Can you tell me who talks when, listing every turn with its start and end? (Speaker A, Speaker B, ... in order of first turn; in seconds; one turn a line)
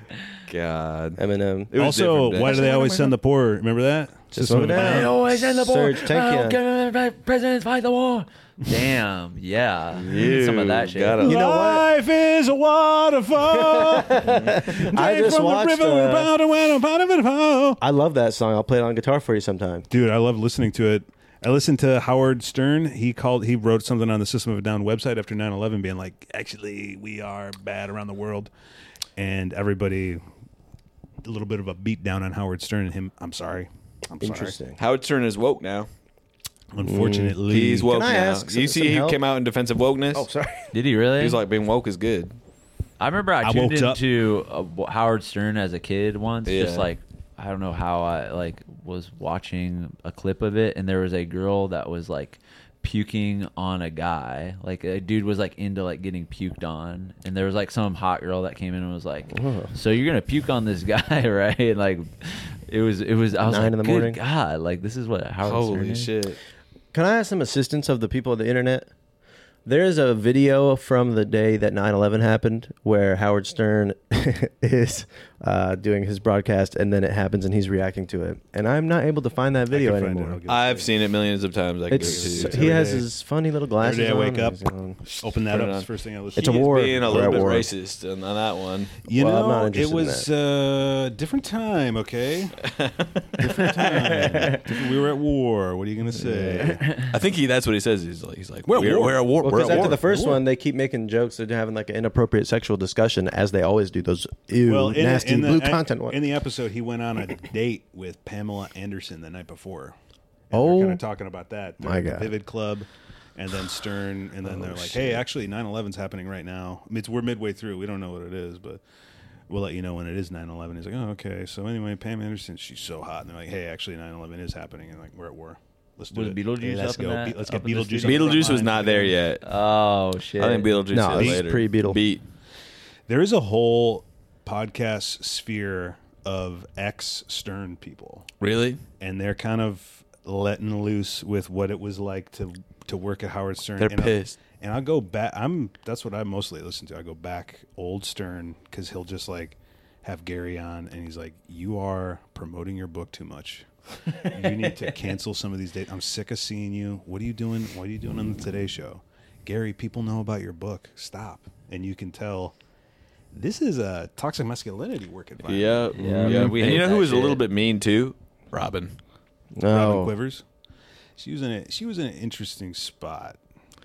Speaker A: 0.5-2.6
Speaker B: 1.2-1.7
Speaker C: 1.8-5.1
Speaker B: 2.4-2.9
Speaker B: 4.3-6.6
Speaker D: 4.7-11.2
Speaker A: 9.9-11.4
Speaker C: 11.2-17.8
Speaker B: 11.2-11.9
Speaker B: 13.6-16.3
Speaker A: 14.2-14.7
Speaker B: 17.8-19.9
Speaker C: 19.9-28.5
Speaker C: 29.2-30.2
Speaker C: 31.2-34.6
Speaker B: 34.2-34.8
Speaker A: 34.8-35.9
Speaker C: 36.7-37.9
Speaker B: 36.8-39.2
Speaker A: 37.5-40.3
Speaker B: 40.1-40.7
Speaker D: 40.7-41.4
Speaker A: 41.2-42.4
Speaker D: 43.0-66.1
Speaker C: 43.4-44.0
Speaker A: 46.5-46.9
Speaker B: 59.3-59.7
Speaker B: 63.4-64.2
Speaker A: 65.5-66.4
Speaker B: 66.9-68.9
Speaker B: 69.7-80.4
Speaker C: 79.7-80.9
Speaker A: 80.5-82.8
Speaker B: 81.9-85.0
Speaker C: 82.0-83.1
Speaker C: 83.8-87.7
Speaker A: 85.1-89.0
Speaker B: 86.4-87.7
Speaker C: 89.0-92.6
Speaker B: 89.1-90.3
Speaker A: 92.6-94.2
Speaker C: 93.4-96.8
Speaker A: 96.4-100.0
Speaker C: 98.7-100.4
Speaker B: 99.4-106.2
Speaker C: 104.6-110.0
Speaker C: 110.5-118.8
Speaker B: 110.5-111.0
Speaker B: 111.8-112.3
Speaker B: 114.6-115.2
Speaker C: 119.5-129.2
Speaker D: 126.1-130.9
Speaker A: 128.0-129.4
Speaker A: 130.4-132.2
Speaker B: 130.9-132.0
Speaker C: 131.1-131.4
Speaker C: 133.1-138.3
Speaker A: 138.4-138.8
Speaker C: 139.0-162.6
Speaker A: 143.8-144.4
Speaker C: 163.3-165.9
Speaker A: 165.4-169.0
Speaker D: 165.9-167.4
Speaker B: 166.0-166.6
Speaker B: 169.6-170.1
Speaker C: 169.7-170.4
Speaker C: 171.2-173.4